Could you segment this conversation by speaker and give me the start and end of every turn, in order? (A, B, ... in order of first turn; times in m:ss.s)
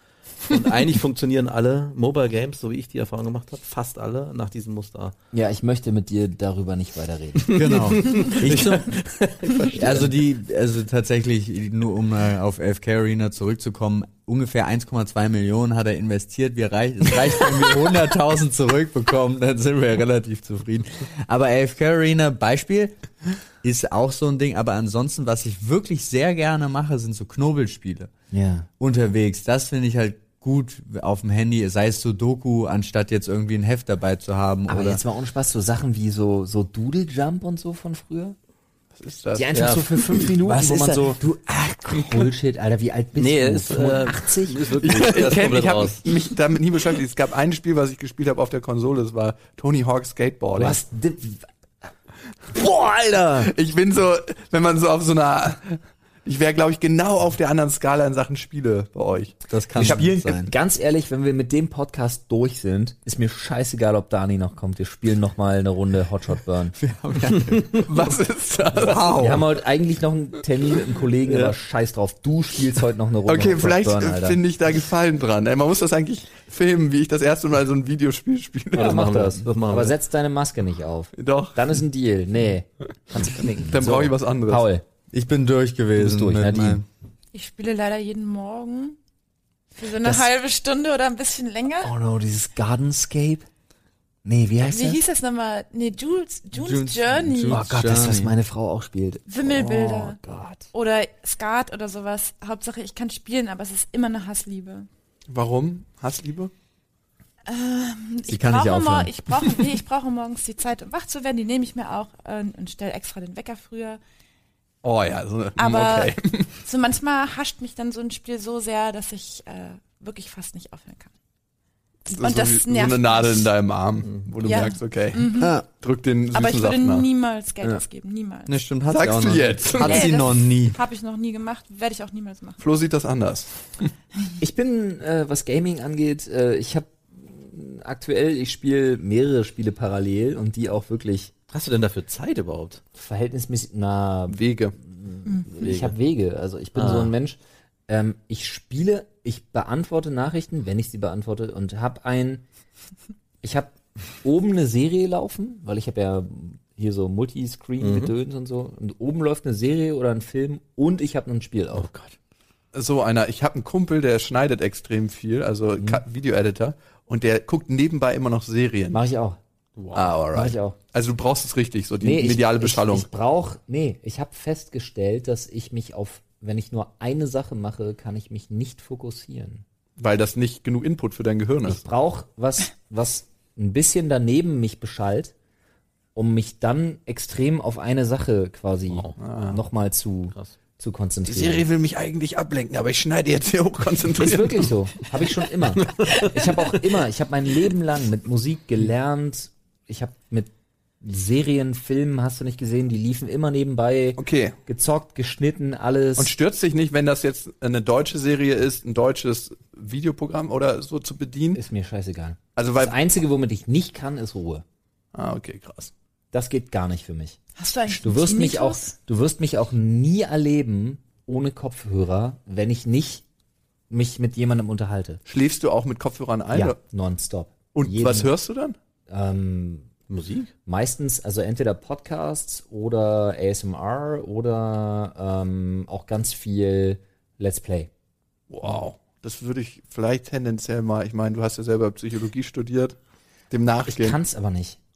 0:00.4-0:05.1 A
0:05.3-0:07.6 B
0:07.4-0:10.1 A
0:07.5-0:09.0 C
0:09.7-0:23.0 C
0:23.6-0:28.1 C
0:28.3-0:28.7 B
0:28.8-0:35.0 C
0:34.7-0:38.4 B
0:38.9-0:39.5 D
0:39.3-0:44.8 B
0:39.5-0:40.9 A
0:43.2-0:46.0 A
0:44.8-0:50.8 D
0:50.5-0:51.5 B
0:52.5-0:53.5 B
0:53.4-1:00.0 D
0:59.5-1:00.5 C
0:59.8-1:06.8 B
1:06.8-1:08.0 C
1:07.4-1:07.8 A
1:07.7-1:09.2 D
1:08.7-1:09.4 C
1:09.1-1:14.4 B
1:13.3-1:19.0 D
1:18.7-1:19.9 A
1:18.7-1:24.8 B
1:21.2-1:21.6 D
1:23.7-1:24.7 D
1:25.1-1:26.8 C
1:26.0-1:26.8 B
1:27.3-1:29.0 E
1:29.7-1:31.9 E
1:30.0-1:30.2 B
1:31.8-1:33.4 B
1:34.2-1:35.0 B
1:34.6-1:37.6 E
1:36.5-1:38.3 C
1:37.5-1:40.7 B
1:39.3-1:40.2 E
1:40.7-1:44.9 E
1:45.3-1:46.5 D
1:47.4-1:54.0 E
1:48.3-1:49.6 C
1:54.8-1:56.5 D
1:55.6-2:01.1 E
2:02.0-2:03.5 E
2:02.1-2:07.0 D
2:04.0-2:04.3 A
2:04.4-2:05.6 E
2:05.4-2:05.6 C
2:06.3-2:08.6 E
2:08.5-2:10.8 C
2:08.9-2:10.2 D
2:09.8-2:12.6 E
2:12.6-2:13.9 D
2:14.4-2:21.3 B
2:21.5-2:22.8 A
2:23.0-2:32.4 B
2:24.3-2:24.7 D
2:25.6-2:26.0 A
2:26.8-2:27.1 A
2:33.4-2:41.9 B
2:37.8-2:38.1 A
2:41.7-2:42.1 A
2:42.7-2:49.0 D
2:48.9-2:49.4 B
2:49.8-2:50.1 A
2:49.9-2:53.1 D
2:50.3-2:50.8 B
2:52.0-2:59.6 B
3:00.0-3:01.8 D
3:01.6-3:05.3 B
3:06.1-3:11.6 B
3:08.9-3:09.1 A
3:09.2-3:09.6 D
3:11.3-3:14.7 D
3:14.2-3:26.3 B
3:15.8-3:16.3 A
3:24.2-3:24.6 D
3:26.2-3:31.6 D
3:31.5-3:34.6 B
3:32.6-3:33.0 D
3:35.1-3:35.9 D
3:36.3-3:43.2 B
3:37.6-3:38.9 E
3:43.9-3:45.2 B
3:45.2-3:46.8 D
3:46.5-3:48.3 B
3:47.7-3:48.8 D
3:49.1-3:49.9 B
3:50.1-3:50.5 A
3:50.6-3:57.9 B
3:58.5-4:03.0 D
4:03.5-4:04.2 D
4:03.9-4:04.8 B